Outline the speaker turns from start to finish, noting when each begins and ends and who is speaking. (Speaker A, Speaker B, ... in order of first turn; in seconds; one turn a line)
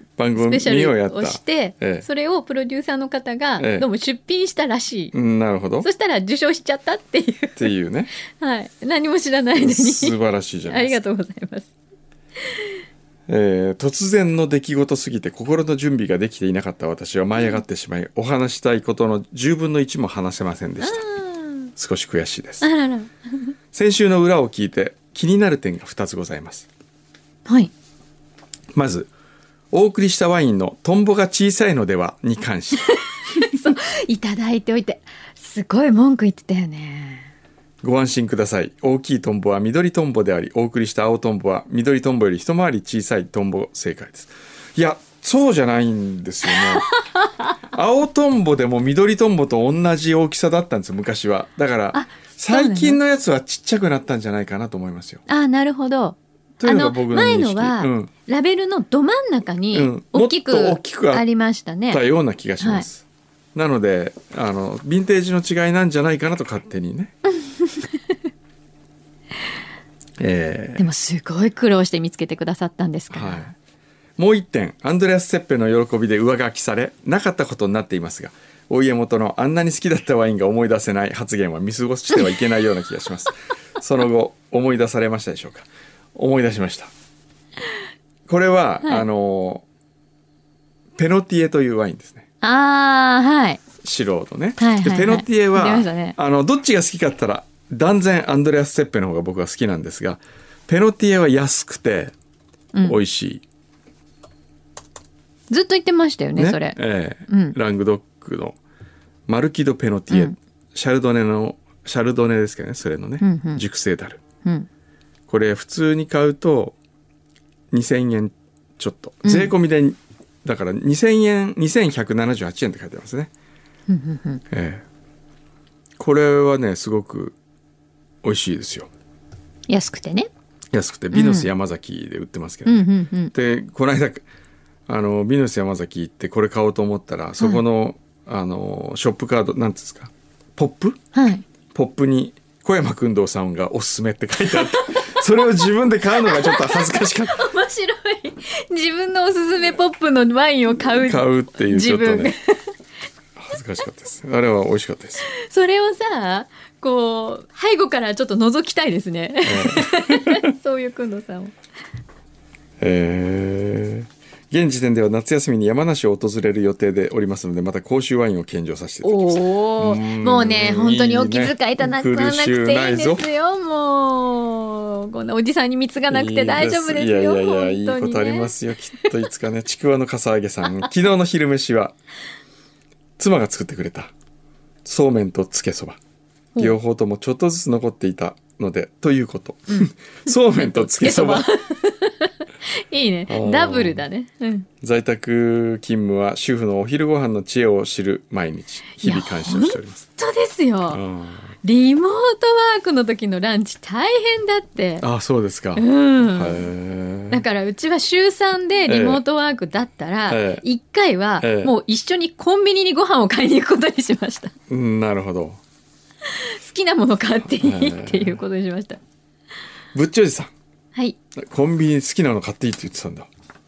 Speaker A: 0.2-2.1
Speaker B: 0.3-5.1
Speaker A: 3.6-3.9
Speaker A: 5.1-5.9
Speaker B: 5.8-7.7
Speaker A: 7.6-8.1
Speaker B: 8.3-11.7
Speaker A: 9.6-11.0
Speaker B: 12.5-12.7
Speaker A: 13.3-21.0
Speaker B: 17.4-17.6
Speaker B: 20.8-21.7
Speaker A: 21.8-22.7
Speaker B: 22.6-23.1
Speaker A: 23.7-26.7
Speaker A: 28.7-29.1
Speaker A: 29.7-32.9
Speaker B: 33.3-37.3
Speaker A: 37.8-46.9
Speaker B: 46.6-47.3
Speaker A: 47.7-55.2
Speaker B: 51.9-53.0
Speaker B: 55.3-62.0
Speaker A: 56.6-58.1
Speaker A: 59.7-61.2
Speaker A: 61.9-63.0
Speaker B: 62.6-62.9
Speaker A: 63.5-67.1
Speaker B: 67.7-68.0
Speaker A: 70.2-70.8
Speaker B: 70.8-73.5
Speaker A: 73.1-73.5
Speaker A: 74.2-86.9
Speaker A: 88.3-89.7
Speaker A: 91.0-92.2
Speaker B: 92.4-93.6
Speaker A: 93.8-102.1
Speaker B: 94.6-96.2
Speaker B: 102.7-103.0
Speaker A: 102.8-103.4
Speaker B: 105.5-107.6
Speaker A: 106.4-108.6
Speaker A: 109.3-114.2
Speaker B: 113.2-113.6
Speaker A: 115.3-116.8
Speaker A: 117.7-123.3
Speaker B: 119.2-119.5
Speaker B: 123.9-124.4
Speaker A: 124.5-124.8
Speaker A: 126.0-127.4
Speaker A: 128.2-128.9
Speaker B: 129.7-130.3
Speaker A: 130.7-134.2
Speaker B: 131.1-131.5
Speaker B: 132.7-133.3
Speaker A: 134.9-141.0
Speaker B: 141.1-141.4
Speaker A: 141.7-147.4
Speaker B: 144.5-145.5
Speaker B: 146.2-152.7
Speaker A: 150.8-152.3
Speaker A: 153.4-155.3
Speaker B: 155.3-161.5
Speaker A: 159.4-160.4
Speaker A: 162.8-173.2
Speaker B: 169.0-179.1
Speaker A: 176.1-181.9
Speaker A: 183.2-184.1
Speaker A: 184.8-186.0
Speaker A: 186.6-191.5
Speaker B: 190.5-194.7
Speaker A: 193.3-194.1
Speaker A: 194.8-200.1
Speaker B: 199.0-201.0
Speaker A: 200.9-201.6
Speaker B: 201.6-205.1
Speaker A: 205.0-207.4
Speaker B: 205.8-206.7
Speaker B: 207.3-214.5
Speaker A: 208.9-209.2
Speaker A: 210.3-210.6
Speaker A: 211.4-211.7
Speaker A: 214.7-215.6
Speaker B: 216.3-219.0
Speaker A: 217.5-218.4
Speaker A: 219.9-220.5
Speaker A: 221.4-223.3